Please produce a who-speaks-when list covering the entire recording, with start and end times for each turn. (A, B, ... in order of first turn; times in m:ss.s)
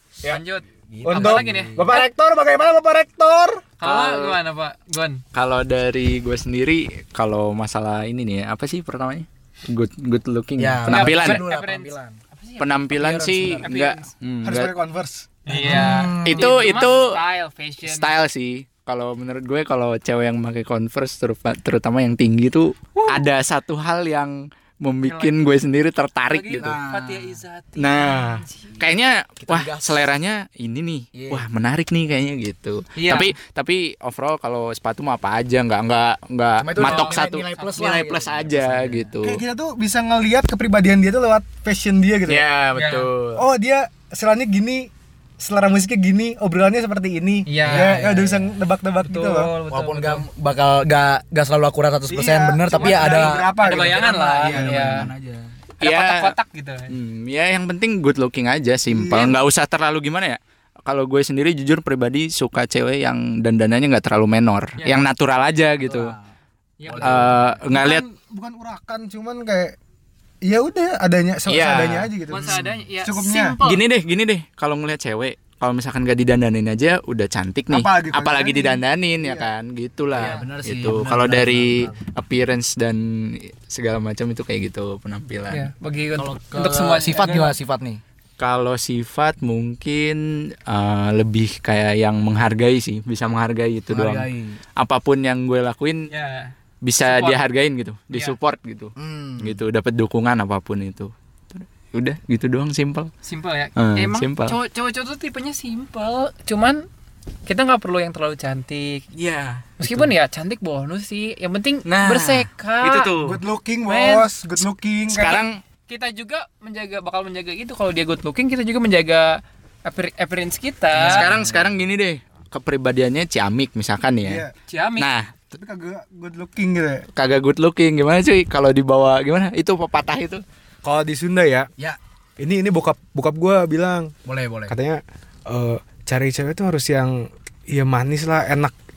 0:00.2-0:02.1 A
0:00.9-0:01.9 B
0:01.0-0:03.6 C
0:03.8-0:05.2 A
0:03.8-0:04.4 D
0:05.3-0:11.4 D
0:10.6-0:12.2 B
0:10.9-0:12.7 A
0:12.6-0:14.7 D
0:12.9-0:13.7 B
0:13.6-0:14.1 A
0:14.4-0:15.4 C
0:15.5-0:18.1 A
0:15.5-0:16.5 B
0:15.8-0:17.2 D
0:17.8-0:26.8 D
0:23.0-0:23.2 A
0:25.0-0:25.5 A
0:26.3-0:28.8 A
0:26.6-0:27.4 B
0:27.8-0:39.4 D
0:29.4-0:30.1 B
0:31.1-0:31.4 B
0:33.0-0:33.3 A
0:36.6-0:39.1 B
0:36.8-0:37.8 A
0:39.2-0:42.4 C
0:42.3-0:43.4 D
0:42.8-0:43.1 A
0:43.4-0:49.5 C
0:47.5-0:48.0 A
0:47.6-0:48.5 B
0:49.0-0:50.2 A
0:49.7-0:55.5 B
0:52.1-0:55.1 C
0:52.7-0:55.1 A
0:55.8-0:57.0 A
0:55.8-0:56.3 D
0:56.9-1:06.2 D
0:58.9-0:59.4 C
1:05.8-1:06.3 B
1:06.8-1:07.4 A
1:06.9-1:07.6 B
1:07.0-1:08.0 D
1:07.7-1:09.8 C
1:10.4-1:13.6 C
1:11.5-1:12.1 D
1:12.3-1:13.8 A
1:12.4-1:12.7 B
1:13.6-1:25.7 D
1:17.7-1:19.5 C
1:20.1-1:21.9 B
1:25.5-1:27.6 A
1:26.2-1:28.0 B
1:28.4-1:36.1 D
1:33.9-1:34.6 B
1:36.1-1:37.4 A
1:36.8-1:43.1 D
1:39.0-1:39.6 B
1:43.2-1:46.9 A
1:43.8-1:44.6 D
1:47.5-1:49.1 A
1:49.2-1:50.1 D
1:49.8-1:53.2 A
1:51.8-1:53.4 D
1:53.2-1:55.4 C
1:53.8-1:54.3 A
1:55.1-1:55.6 D
1:55.9-2:01.3 A
2:01.0-2:04.4 D
2:01.0-2:01.3 B
2:04.2-2:04.5 C
2:04.7-2:05.1 A
2:05.0-2:05.4 D
2:05.5-2:07.0 C
2:07.2-2:10.4 D
2:10.8-2:11.7 C
2:12.4-2:14.1 C
2:14.2-2:14.8 B
2:14.7-2:18.7 C